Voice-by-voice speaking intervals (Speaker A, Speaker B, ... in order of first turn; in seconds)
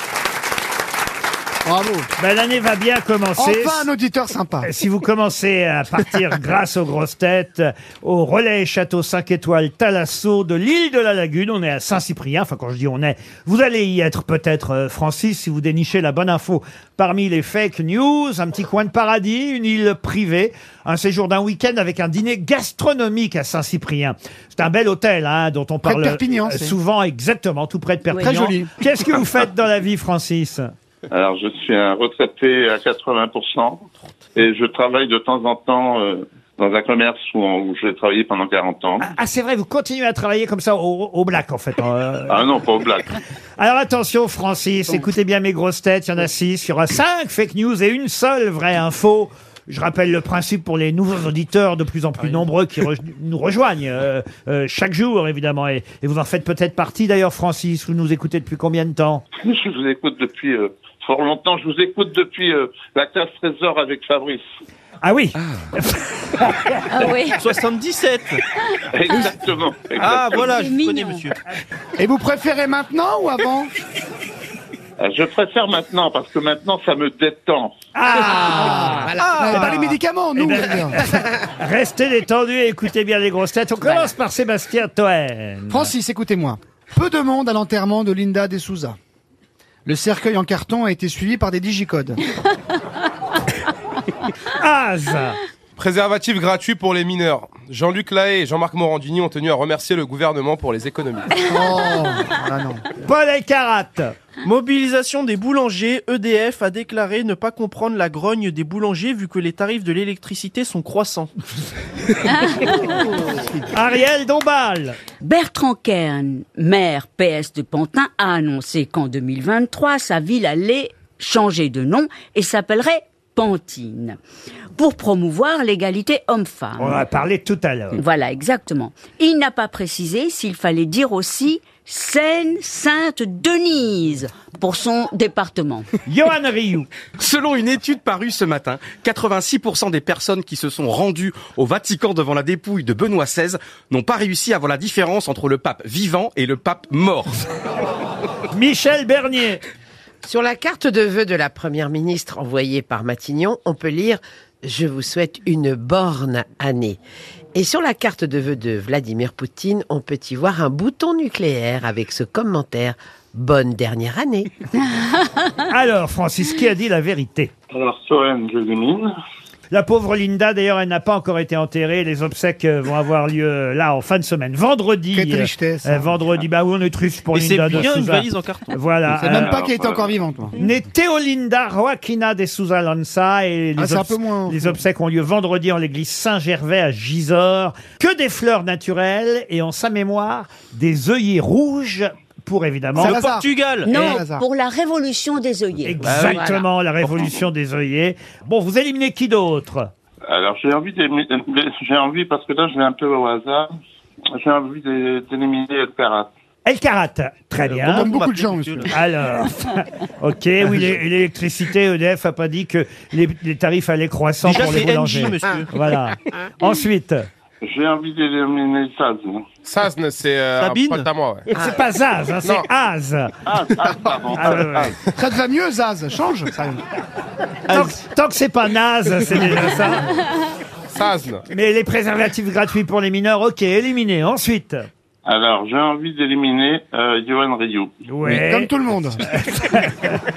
Speaker A: 1.6-2.1, 3.4-4.7, 25.8-26.8, 28.3-28.7, 72.0-73.7, 78.3-81.0, 85.7-89.0, 89.8-92.2, 101.5-102.8, 175.1-176.1, 179.1-180.6, 183.8-184.8, 193.0-194.4, 207.8-208.9, 225.2-226.8, 238.2-239.2
Speaker B: 2.2-3.9, 4.6-30.7, 39.0-42.5, 43.6-59.2, 65.0-66.8, 78.0-79.7, 80.4-85.9, 94.5-95.4, 103.0-104.1, 113.7-115.0, 126.8-128.0, 136.1-136.9, 148.5-149.6, 165.7-167.5, 169.7-179.5, 180.6-193.2, 195.8-199.9, 206.7-208.1, 208.9-217.2, 221.6-223.3, 224.4-224.9, 227.7-230.1, 231.5-234.9, 238.1-238.7, 239.3-240.2
Speaker C: 28.1-28.4, 66.9-67.5, 70.4-71.3, 115.2-124.2, 124.8-127.0, 127.9-135.9, 193.8-196.6
Speaker D: 31.1-33.8, 34.4-39.0, 42.3-43.2, 59.4-64.4, 68.9-70.7, 75.0-77.7, 167.7-169.1, 179.3-180.2, 200.3-203.7, 204.4-206.3, 217.6-219.4, 223.5-224.9, 235.3-237.9
Speaker E: 67.4-68.4, 70.0-71.4, 79.2-79.5, 104.4-111.3, 177.3-178.7, 193.0-193.9, 196.0-196.4, 207.7-208.8, 214.4-215.7, 220.6-221.1
Speaker F: 79.0-79.4, 150.2-157.0, 157.6-164.6
Speaker G: 95.8-101.3, 146.2-147.0, 219.7-221.5, 230.9-231.4
Speaker H: 137.2-147.3